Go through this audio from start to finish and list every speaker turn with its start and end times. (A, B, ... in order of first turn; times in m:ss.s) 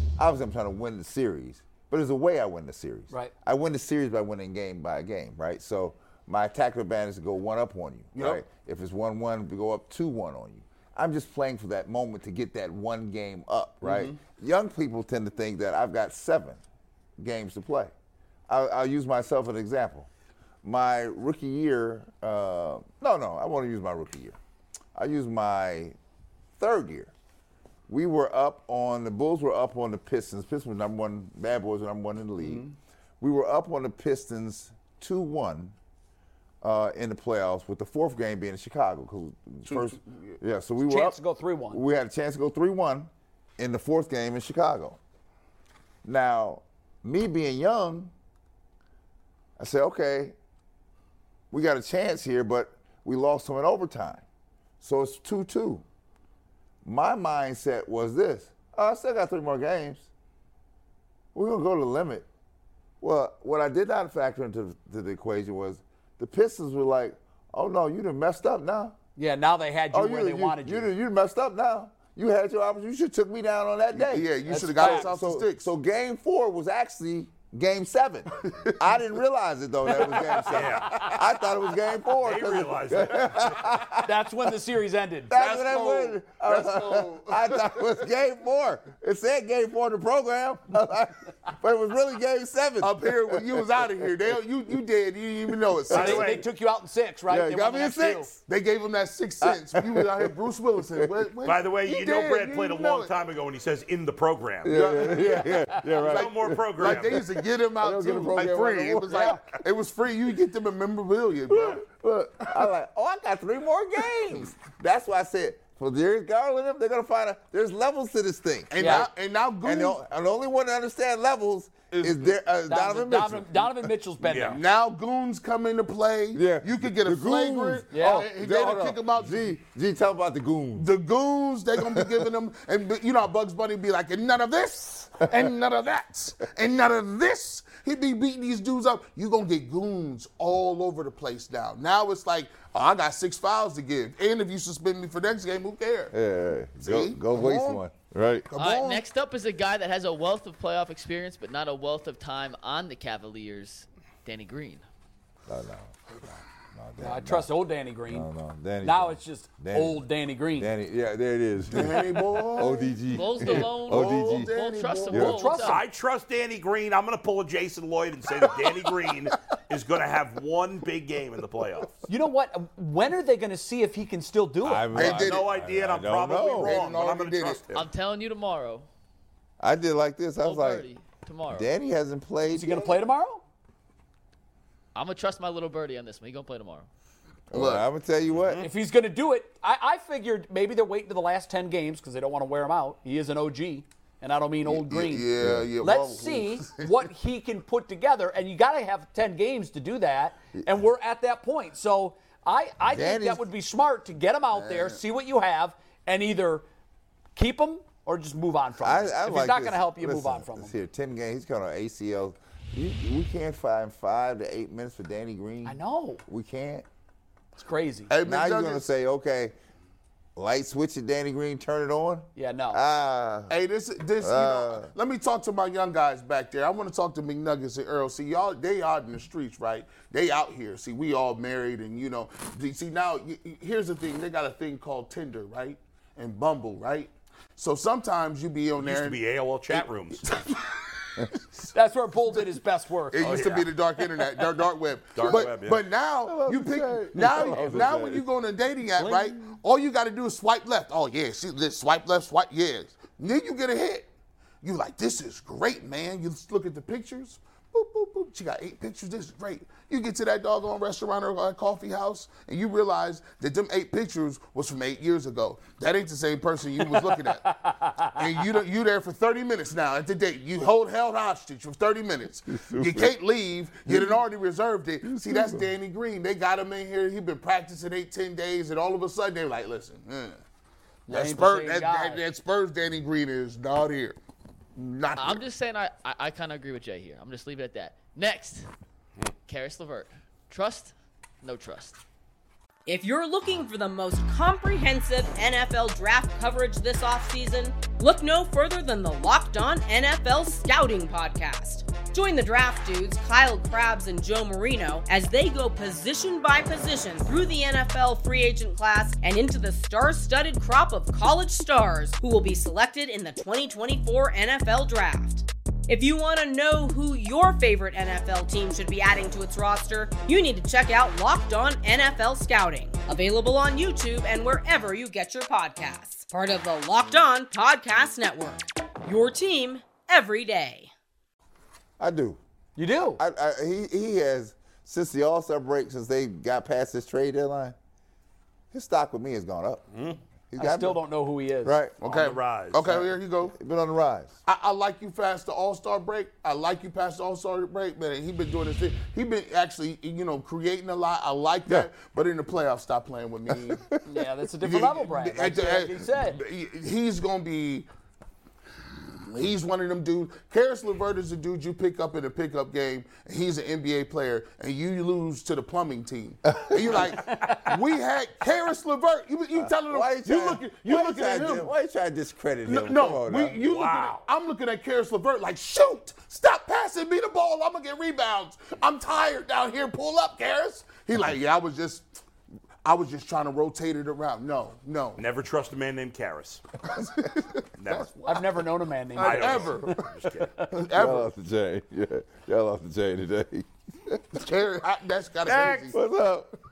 0:00.2-0:16.6 A
0:08.2-0:08.4 B
0:13.8-0:14.2 B
0:17.2-0:17.9 A
0:18.5-0:20.1 A
0:20.6-0:24.4 A
0:25.0-0:26.0 A
0:26.6-0:27.1 A
0:27.9-0:32.6 A
0:32.4-0:32.8 B
0:33.2-0:35.8 A
0:36.6-0:45.0 A
0:39.7-0:40.4 B
0:40.8-0:41.8 C
0:46.0-0:48.1 A
0:49.6-0:50.4 A
0:51.5-0:54.2 A
0:54.8-0:55.8 A
0:56.8-1:00.1 A
1:01.3-1:02.3 A
1:03.0-1:09.0 A
1:09.2-1:10.9 C
1:09.9-1:24.2 A
1:13.9-1:15.7 B
1:14.5-1:15.1 C
1:18.5-1:18.9 B
1:20.0-1:20.7 B
1:20.5-1:21.0 D
1:22.2-1:23.7 D
1:24.0-1:25.4 C
1:25.3-1:33.8 A
1:25.3-1:27.8 B
1:32.8-1:36.4 B
1:35.9-1:36.4 D
1:35.9-1:38.3 C
1:37.3-1:38.4 A
1:38.5-1:43.1 B
1:39.4-1:40.3 A
1:41.4-1:44.8 D
1:44.6-1:49.5 A
1:44.7-1:51.8 B
1:45.1-1:46.0 C
1:46.0-1:47.2 D
1:51.5-1:59.1 A
1:58.7-2:00.0 B
1:58.8-1:59.1 C
1:59.6-2:03.9 A
2:01.9-2:02.4 B
2:02.7-2:04.6 C
2:04.2-2:04.6 D
2:04.5-2:09.5 B
2:06.3-2:10.9 A
2:07.9-2:08.3 C
2:10.8-2:26.1 B
2:11.8-2:12.2 A
2:26.1-2:28.5 A
2:26.8-2:27.8 B
2:28.5-2:29.1 B
2:28.6-2:34.8 E
2:35.5-2:35.9 A
2:36.7-2:37.5 A
2:37.0-2:38.3 C
2:38.1-2:40.1 A
2:38.8-2:40.7 C
2:40.6-2:44.5 A
2:41.7-2:45.5 B
2:43.1-2:45.8 E
2:45.1-2:45.4 A
2:45.2-2:45.8 C
2:45.6-2:52.0 D
2:52.1-2:55.0 C
2:54.6-2:56.8 A
2:54.9-2:55.5 B
2:55.0-2:57.9 D
2:56.6-2:57.6 B
2:57.7-2:58.9 E
2:59.6-3:00.9 A
3:00.4-3:01.7 E
3:01.5-3:03.0 A
3:02.5-3:03.4 C
3:05.0-3:06.9 E
3:07.5-3:08.7 A
3:07.5-3:07.9 B
3:08.3-3:08.7 D
3:08.6-3:15.3 C
3:14.6-3:16.9 B
3:15.4-3:15.7 A
3:15.8-3:26.7 C
3:22.8-3:23.4 A
3:24.5-3:25.0 B
3:27.4-3:30.7 C
3:28.8-3:36.9 A
3:35.6-3:36.2 C
3:37.6-3:38.1 C
3:38.1-3:38.9 B
3:38.2-3:39.6 A
3:40.4-3:43.5 A
3:42.4-3:42.8 C
3:43.5-3:59.2 B
3:44.2-3:44.9 A
3:58.8-4:00.2 D
3:59.7-4:01.7 B
4:01.7-4:03.4 C
4:03.1-4:14.1 B
4:03.2-4:03.7 D
4:05.1-4:05.8 D
4:06.2-4:08.3 A
4:14.6-4:40.4 B
4:26.9-4:28.2 C
4:32.5-4:33.2 A
4:33.9-4:34.2 A
4:35.0-4:35.7 A
4:41.1-4:42.2 C
4:41.1-4:44.2 B
4:44.8-4:45.4 B
4:45.2-4:48.7 E
4:49.5-4:52.0 E
4:52.9-5:30.9 F
5:32.0-5:32.4 A
5:32.8-5:33.2 C
5:33.2-5:37.8 A
5:38.7-5:39.8 A
5:39.9-5:40.2 D
5:40.5-5:41.1 A
5:40.6-5:41.8 C
5:41.6-5:42.0 A
5:42.0-5:43.6 B
5:42.0-5:43.0 D
5:42.8-5:44.4 A
5:44.5-5:53.9 B
5:53.5-5:54.0 A
5:54.0-5:56.4 C
5:54.6-5:57.9 B
5:59.3-6:11.7 B
6:09.6-6:13.6 A
6:12.7-6:22.1 B
6:13.6-6:14.2 D
6:22.8-6:25.2 B
6:25.2-6:26.6 D
6:26.9-6:28.6 B
6:27.8-6:28.3 D
6:28.3-6:29.9 C
6:29.1-6:31.3 B
6:29.2-6:30.5 D
6:30.9-6:34.4 A
6:34.4-6:36.0 B
6:35.4-6:35.9 D
6:35.9-6:36.5 A